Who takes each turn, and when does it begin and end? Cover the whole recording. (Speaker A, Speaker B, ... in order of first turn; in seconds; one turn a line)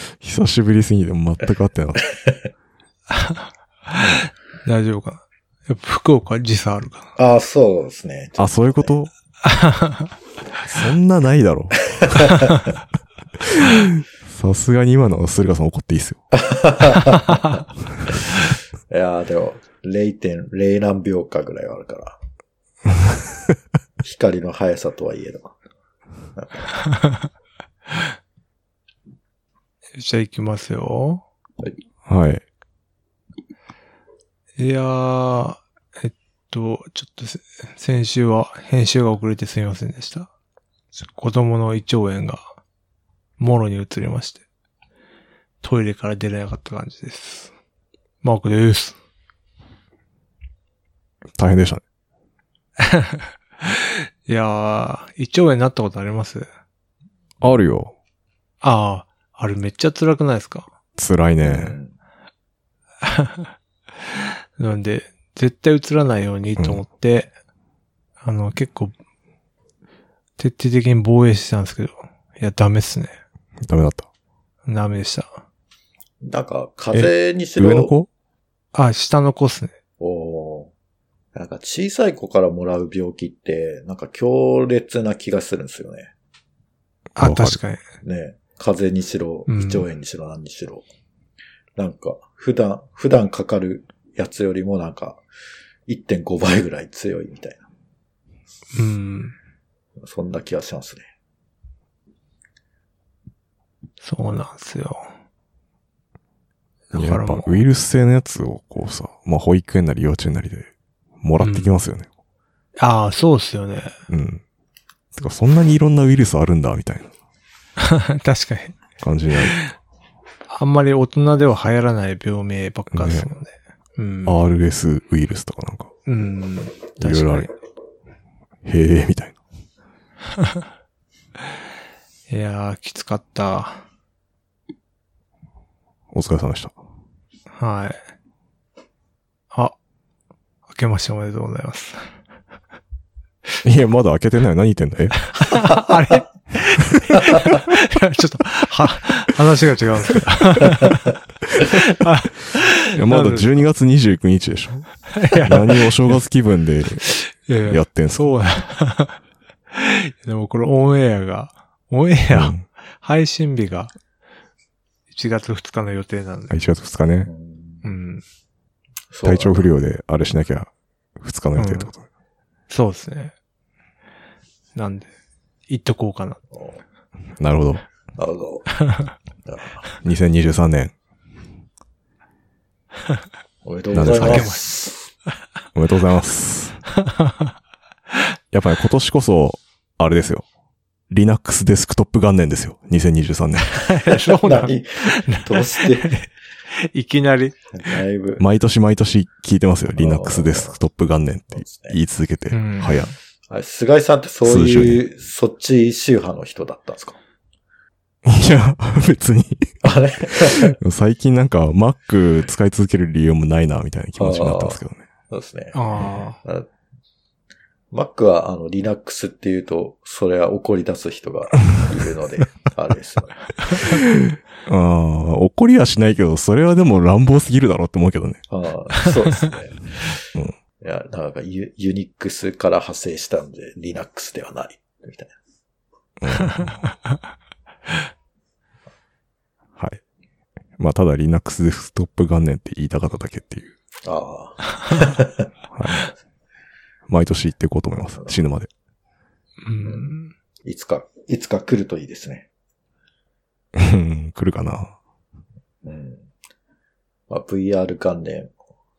Speaker A: 0.2-2.0
Speaker B: 2.0-2.5
Speaker C: 3.1-7.1
Speaker B: 7.2-8.9
Speaker A: 8.4-9.1
Speaker C: 9.4-10.1
Speaker A: 10.7-12.1
Speaker B: 11.8-12.6
Speaker A: 13.4-16.2
Speaker B: 16.3-17.6
Speaker C: 17.2-17.5
Speaker B: 18.9-22.2
Speaker B: 24.0-25.6
Speaker B: 26.4-26.7
Speaker C: 26.8-27.3
Speaker C: 30.0-31.2
Speaker A: 32.0-32.4
Speaker C: 34.6-40.3
Speaker C: 41.0-42.4
Speaker C: 43.4-44.4
Speaker C: 45.6-47.5
Speaker C: 48.2-49.0
Speaker A: 51.4-51.8
Speaker C: 52.8-56.5
Speaker A: 57.4-57.9
Speaker C: 58.6-60.7
Speaker A: 61.0-61.8
Speaker B: 61.4-61.9
Speaker C: 63.0-63.5
Speaker C: 64.1-67.3
Speaker A: 66.6-66.8
Speaker C: 68.2-68.9
Speaker C: 70.4-73.2
Speaker A: 73.6-74.1
Speaker C: 74.7-75.4
Speaker B: 76.2-77.9
Speaker A: 76.9-78.1
Speaker C: 78.7-79.8
Speaker B: 80.0-80.7
Speaker B: 81.3-86.1
Speaker C: 87.2-87.8
Speaker A: 87.2-87.6
Speaker B: 88.0-90.8
Speaker C: 89.5-89.8
Speaker B: 91.8-95.2
Speaker B: 95.9-97.6
Speaker C: 98.7-99.3
Speaker B: 100.0-101.0
Speaker C: 104.0-105.1
Speaker C: 106.9-107.6
Speaker A: 106.9-110.7
Speaker A: 111.2-112.1
Speaker C: 111.4-111.8
Speaker C: 112.8-114.0
Speaker A: 114.1-114.4
Speaker A: 115.1-117.1
Speaker C: 117.8-118.8
Speaker A: 119.0-119.6
Speaker C: 119.4-119.7
Speaker C: 120.5-124.3
Speaker A: 122.9-123.3
Speaker A: 124.2-125.9
Speaker C: 126.0-127.5
Speaker A: 127.0-127.5
Speaker A: 128.6-129.4
Speaker C: 132.3-133.8
Speaker A: 136.1-136.7
Speaker C: 137.6-138.0
Speaker C: 140.7-142.1
Speaker A: 143.6-145.2
Speaker C: 145.3-153.6
Speaker A: 152.9-157.1
Speaker C: 155.1-156.2
Speaker C: 157.1-159.2
Speaker A: 157.7-158.3
Speaker C: 159.7-163.9
Speaker A: 162.3-162.6
Speaker C: 165.1-166.5
Speaker A: 166.5-167.3
Speaker B: 167.2-167.9
Speaker C: 167.8-168.2
Speaker B: 169.1-169.7
Speaker A: 169.2-172.0
Speaker C: 171.6-171.9
Speaker C: 172.7-173.3
Speaker C: 174.7-175.1
Speaker C: 175.7-176.4
Speaker B: 176.5-176.8
Speaker A: 177.4-177.8
Speaker B: 178.1-178.7
Speaker C: 178.8-179.1
Speaker B: 179.4-179.8
Speaker A: 180.0-180.9
Speaker B: 183.6-185.1
Speaker A: 183.9-184.5
Speaker C: 184.2-184.7
Speaker A: 185.7-186.8
Speaker C: 187.0-187.5
Speaker A: 188.5-190.4
Speaker A: 191.1-193.9
Speaker C: 193.7-197.6
Speaker B: 194.4-196.2
Speaker B: 197.7-198.4
Speaker A: 198.4-203.1
Speaker B: 200.0-200.8
Speaker B: 201.5-202.0
Speaker C: 202.5-203.1
Speaker B: 203.5-207.2
Speaker A: 204.4-205.0
Speaker A: 208.2-209.7
Speaker B: 209.8-210.8
Speaker A: 210.3-215.0
Speaker B: 214.2-215.8
Speaker C: 215.7-216.4
Speaker B: 217.9-223.8
Speaker A: 223.8-228.4
Speaker B: 228.5-230.2
Speaker B: 230.8-235.3
Speaker A: 236.2-236.8
Speaker C: 236.4-236.9
Speaker A: 240.8-243.7
Speaker B: 244.0-245.5
Speaker A: 245.7-246.0
Speaker A: 247.1-248.7
Speaker C: 249.6-250.3
Speaker B: 249.8-250.1
Speaker B: 250.6-252.5
Speaker A: 253.7-254.9
Speaker B: 255.8-256.3
Speaker B: 257.3-258.5